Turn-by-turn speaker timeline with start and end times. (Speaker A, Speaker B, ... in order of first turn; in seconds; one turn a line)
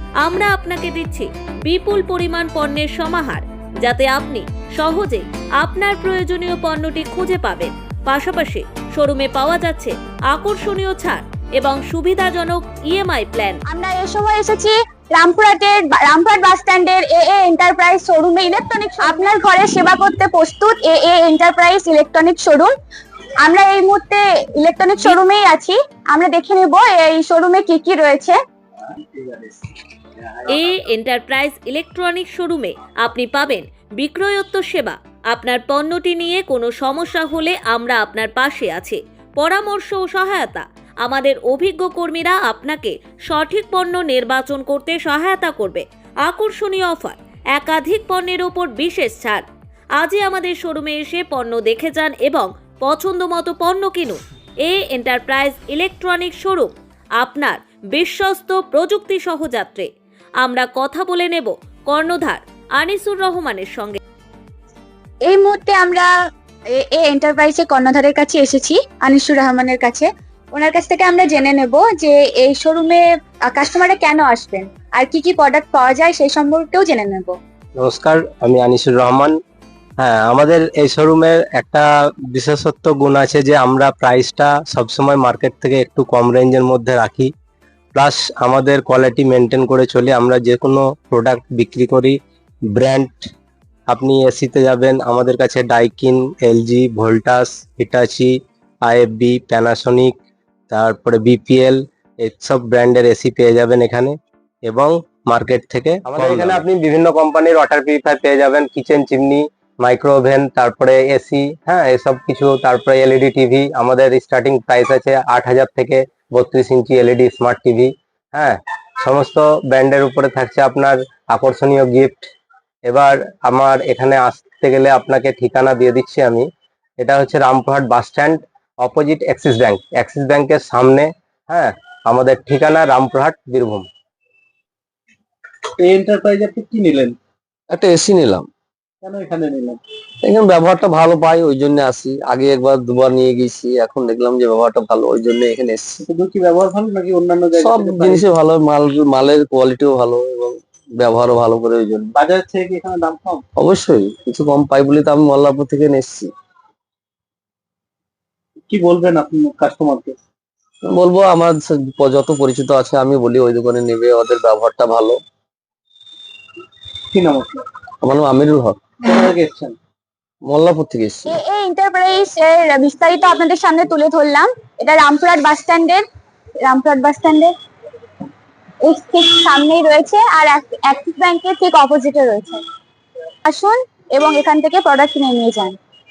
Speaker A: 0.2-13.6
Speaker B: 13.7-22.7
Speaker B: 23.4-28.4
Speaker A: 30.5-49.5
Speaker A: 50.0-59.9
Speaker A: 60.4-64.0
Speaker B: 65.2-66.1
Speaker B: 66.7-77.4
Speaker C: 77.8-79.4
Speaker C: 80.0-87.3
Speaker C: 88.0-92.2
Speaker C: 92.7-93.3
Speaker C: 93.9-100.1
Speaker C: 100.7-104.2
Speaker C: 104.7-122.3
Speaker C: 122.9-126.5
Speaker C: 127.0-133.9
Speaker D: 135.8-137.2
Speaker E: 137.7-138.5
Speaker D: 139.0-139.8
Speaker E: 140.2-146.0
Speaker D: 146.0-148.3
Speaker E: 147.6-152.2
Speaker D: 152.1-153.4
Speaker E: 153.6-156.3
Speaker D: 158.7-160.2
Speaker E: 160.8-165.2
Speaker D: 167.1-167.6
Speaker E: 168.0-168.8
Speaker D: 169.1-169.8
Speaker E: 170.4-171.3
Speaker B: 171.3-176.0
Speaker B: 176.6-177.5
Speaker B: 178.8-182.6
Speaker B: 183.4-185.8